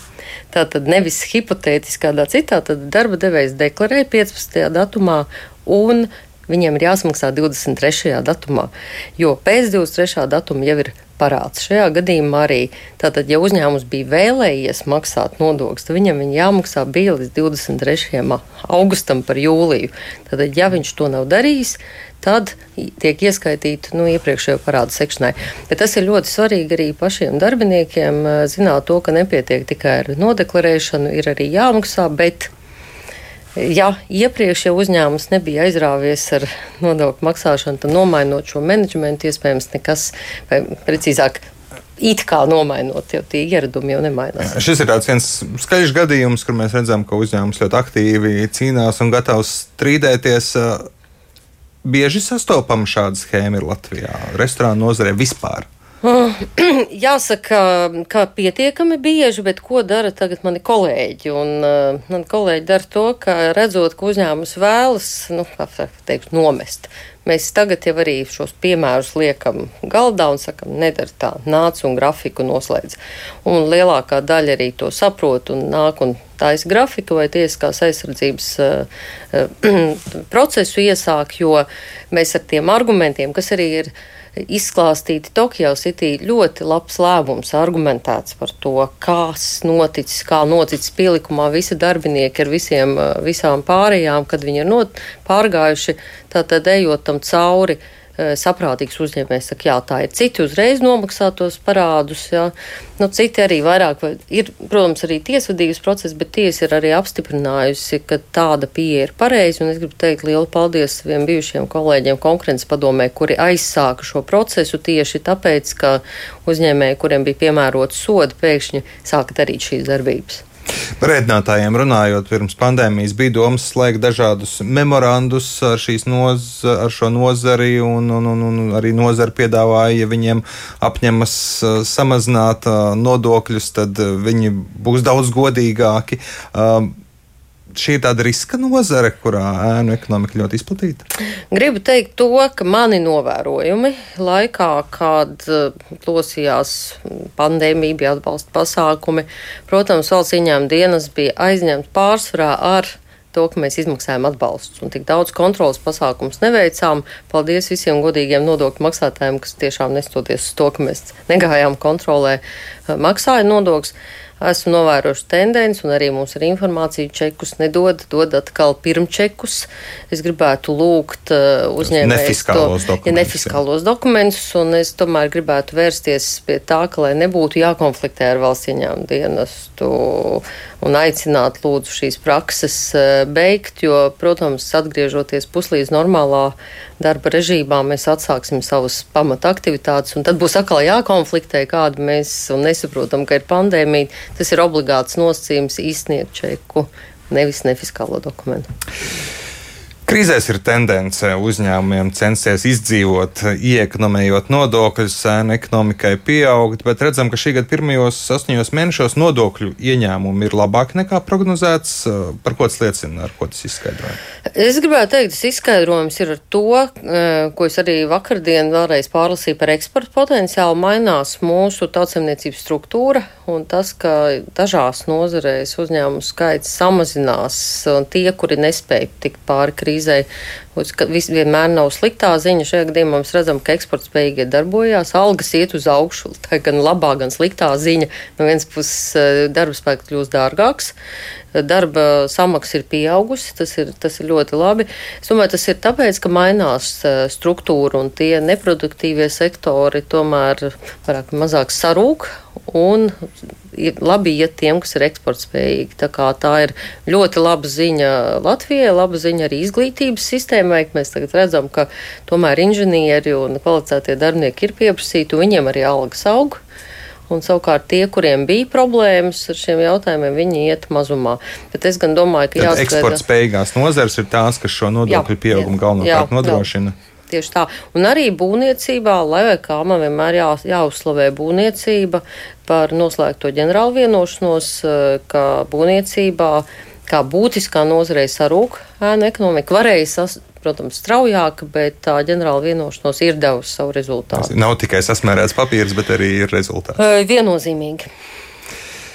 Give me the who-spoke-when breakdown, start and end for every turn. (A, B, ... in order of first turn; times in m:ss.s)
0:00.5-0:32.5 A
0:33.6-0:41.4 A
0:42.0-0:44.6 A
0:44.4-0:50.9 B
0:51.8-0:55.7 B
0:56.0-2:00.4 A
2:01.0-2:16.9 B
2:17.7-2:21.0 B
2:21.5-3:18.7 A
2:51.8-2:53.6 B
3:20.1-3:34.2 B
3:34.5-4:00.9 A
4:01.5-4:26.6 A
4:27.3-4:33.2 A
4:32.6-4:36.9 B
4:35.1-4:36.7 A
4:37.3-4:54.5 A
4:54.4-4:57.0 B
4:57.0-4:58.0 A